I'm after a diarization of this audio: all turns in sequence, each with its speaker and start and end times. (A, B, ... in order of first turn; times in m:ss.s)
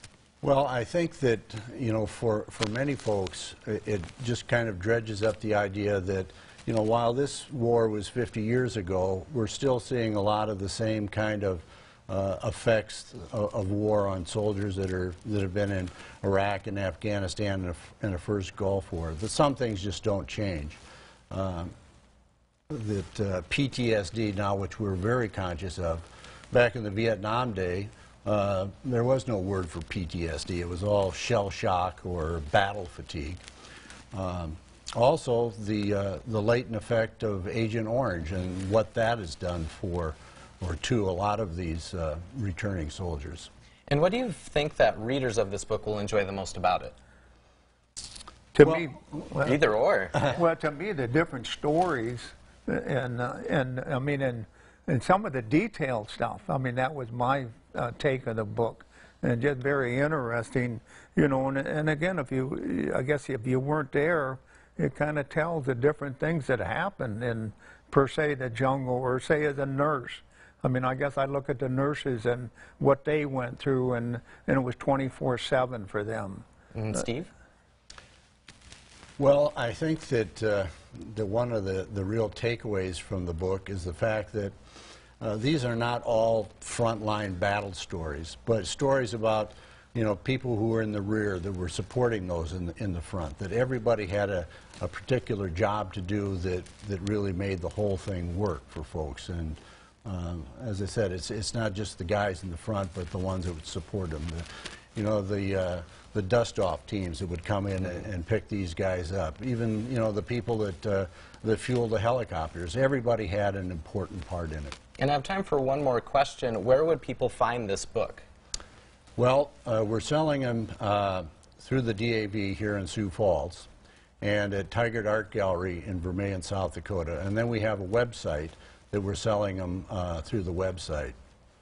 0:00.4-0:20.8 A
0:21.3-0:21.7 A
0:22.7-0:33.4 A
0:34.1-0:43.5 A
0:43.9-0:47.0 B
0:48.6-0:49.6 C
0:49.4-0:50.2 B
0:50.3-1:16.4 C
1:16.7-1:17.3 B
1:19.2-1:24.5 A
1:25.2-1:54.8 A
1:55.0-1:58.2 B
1:59.2-2:03.7 A
2:04.2-2:11.1 A